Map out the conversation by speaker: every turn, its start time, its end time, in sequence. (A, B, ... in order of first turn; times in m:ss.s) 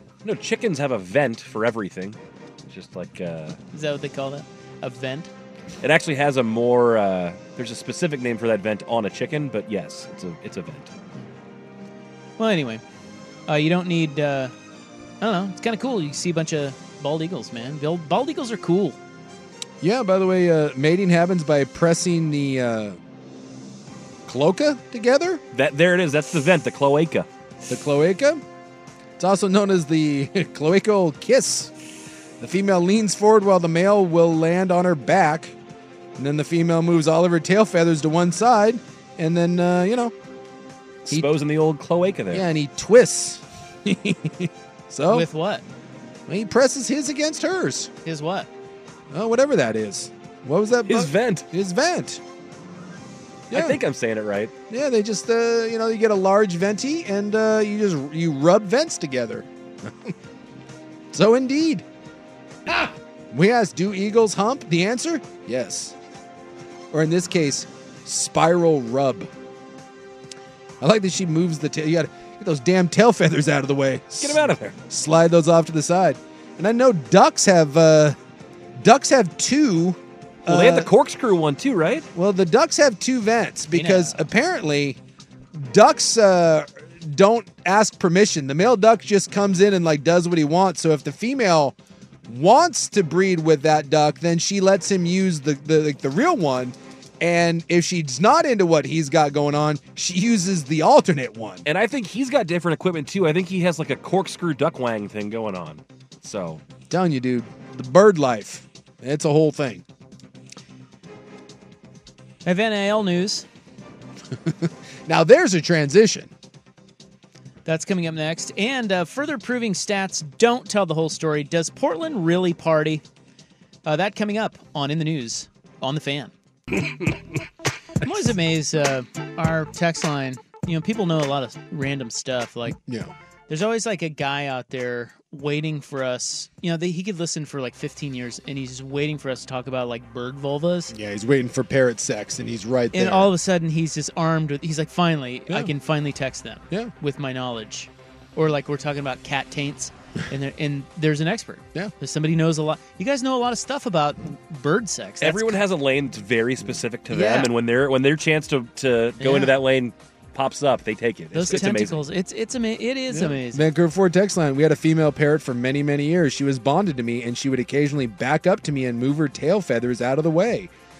0:00.2-0:03.6 A
0:03.7-0:05.3 B
0:05.8-0:10.9 A
0:12.4-0:12.8 B
0:13.5-0:14.5 B
0:15.2-0:19.0 B
0:19.8-0:23.0 C
0:24.2-0:25.4 C
0:25.5-0:27.3 A
0:27.7-0:28.4 C
0:29.2-0:31.7 C
0:32.4-0:35.5 C
0:36.2-0:40.1 C
0:41.0-0:42.4 A
0:42.3-0:45.3 C
0:45.1-0:45.6 B
0:46.3-0:47.9 C
0:48.0-0:48.5 B
0:49.1-0:52.2 C
0:50.9-0:51.4 A
0:53.5-0:53.8 C
0:53.5-0:54.5 A
0:54.7-1:00.1 C
1:01.1-1:01.8 C
1:02.7-1:06.0 C
1:06.9-1:09.3 C
1:10.8-1:18.2 C
1:14.2-1:14.7 A
1:18.8-1:20.9 C
1:20.5-1:22.1 A
1:22.1-1:25.0 C
1:23.7-1:24.2 B
1:25.5-1:31.7 C
1:32.2-1:41.6 C
1:41.6-1:46.6 A
1:46.9-1:49.8 C
1:52.4-1:53.4 B
1:54.4-1:56.3 C
1:57.6-2:03.0 B
2:03.8-2:06.3 B
2:08.0-2:12.8 B
2:12.8-2:13.1 C
2:13.5-2:20.9 B
2:20.9-2:23.3 C
2:22.9-2:35.6 B
2:35.2-2:42.0 A
2:37.1-2:37.5 B
2:39.2-2:39.5 B
2:41.3-2:43.6 B
2:43.1-2:50.7 C